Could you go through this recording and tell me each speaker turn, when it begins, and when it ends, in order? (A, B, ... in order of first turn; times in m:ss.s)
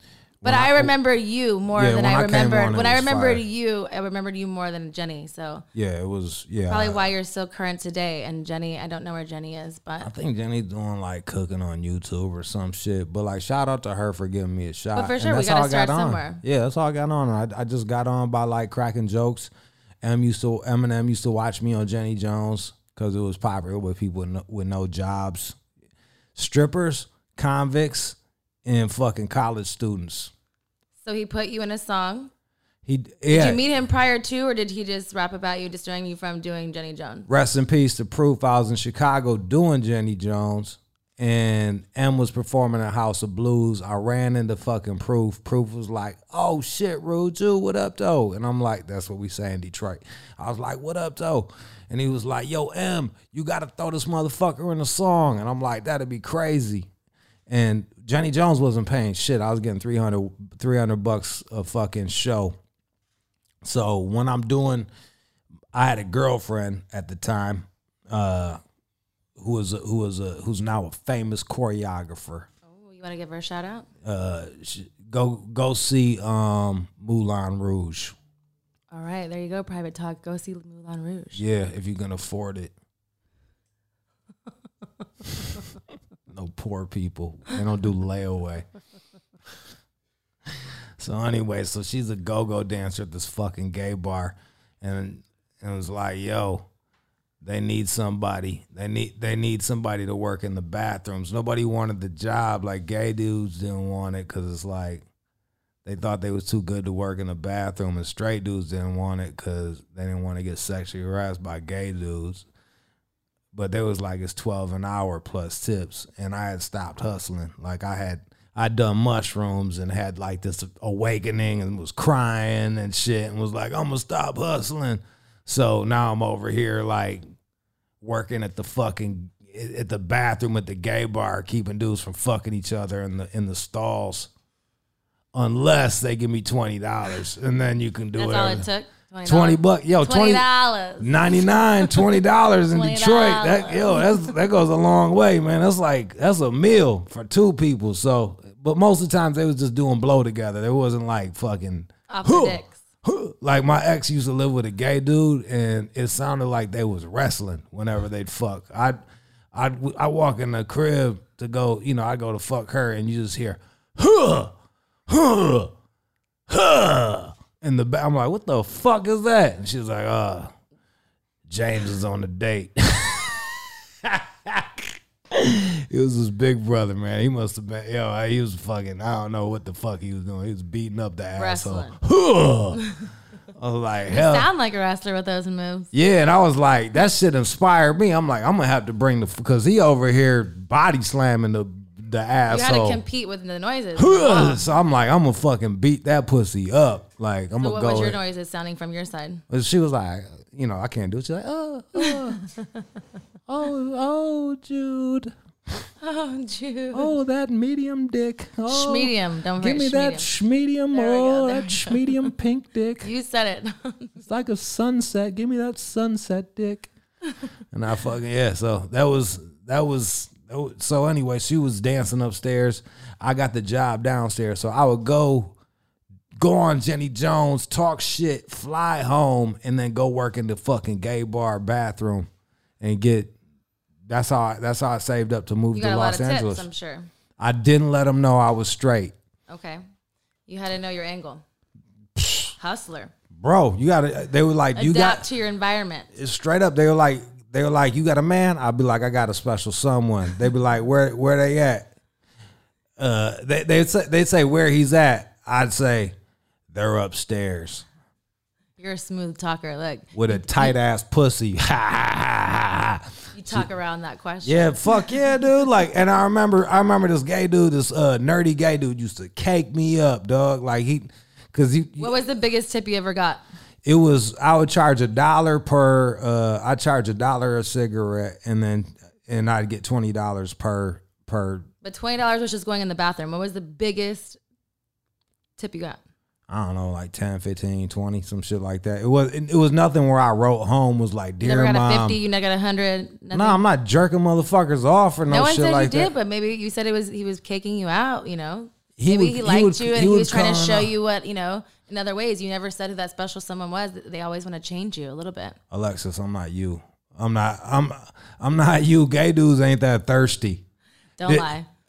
0:00.4-0:00.9 A
0:00.4-0:05.6 B
0:01.7-0:03.4 A
0:05.7-0:07.1 A
0:06.7-0:10.1 B
0:10.0-0:19.5 A
0:15.0-0:16.4 B
0:20.0-0:25.6 A
0:26.4-0:30.3 A
0:31.0-0:32.3 B
0:32.9-0:33.6 A
0:33.3-0:37.3 B
0:37.3-0:56.9 A
0:57.5-1:02.6 A
1:03.6-1:04.9 A
1:05.7-1:08.6 A
1:09.4-1:12.5 A
1:12.7-1:13.9 B
1:14.0-1:18.2 A
1:18.9-1:21.4 B
1:21.4-1:22.7 A
1:26.3-1:28.6 A
1:31.0-1:36.7 A
1:37.4-1:45.0 A
1:45.8-1:52.5 A
1:53.5-2:07.2 A
2:08.0-2:14.3 A
2:15.3-2:18.7 A
2:18.2-2:22.0 B
2:19.2-2:20.5 A
2:21.0-2:39.0 A
2:22.7-2:24.3 B
2:32.1-2:32.8 B
2:39.5-2:44.5 A
2:45.1-2:45.7 A
2:46.5-2:50.5 A
2:51.5-3:02.8 A
3:01.4-3:02.0 B
3:03.6-3:04.5 A
3:04.1-3:05.9 B
3:05.9-3:13.0 A
3:12.5-3:14.6 B
3:14.0-3:18.2 A
3:17.6-3:19.4 B
3:19.5-3:22.4 A
3:23.5-3:25.3 A
3:26.0-3:27.1 B
3:26.9-3:33.1 A
3:28.7-3:30.3 B
3:30.9-3:32.2 B
3:33.0-3:34.2 B
3:34.2-3:36.9 A
3:37.7-3:45.6 A
3:46.4-3:52.3 A
3:52.8-3:53.3 A
3:54.1-3:56.6 A
3:55.7-3:57.1 B
3:57.4-3:59.1 A
3:59.5-3:59.8 B
4:00.5-4:01.4 B
4:02.2-4:02.5 A
4:02.6-4:03.1 B
4:03.3-4:05.3 A
4:04.8-4:06.1 B
4:06.2-4:11.9 A
4:13.0-4:16.2 A
4:16.7-4:17.8 A
4:18.8-4:20.8 B
4:20.1-4:23.7 A
4:23.3-4:25.1 B
4:24.4-4:32.2 A
4:32.0-4:33.4 B
4:33.8-4:41.7 A
4:41.8-4:44.4 B
4:45.6-4:46.0 B
4:46.5-4:52.2 A
4:51.4-4:53.6 B
4:53.3-4:56.1 A
4:55.3-5:05.6 B
4:59.0-5:00.9 A
5:05.7-5:10.6 A
5:11.2-5:11.7 B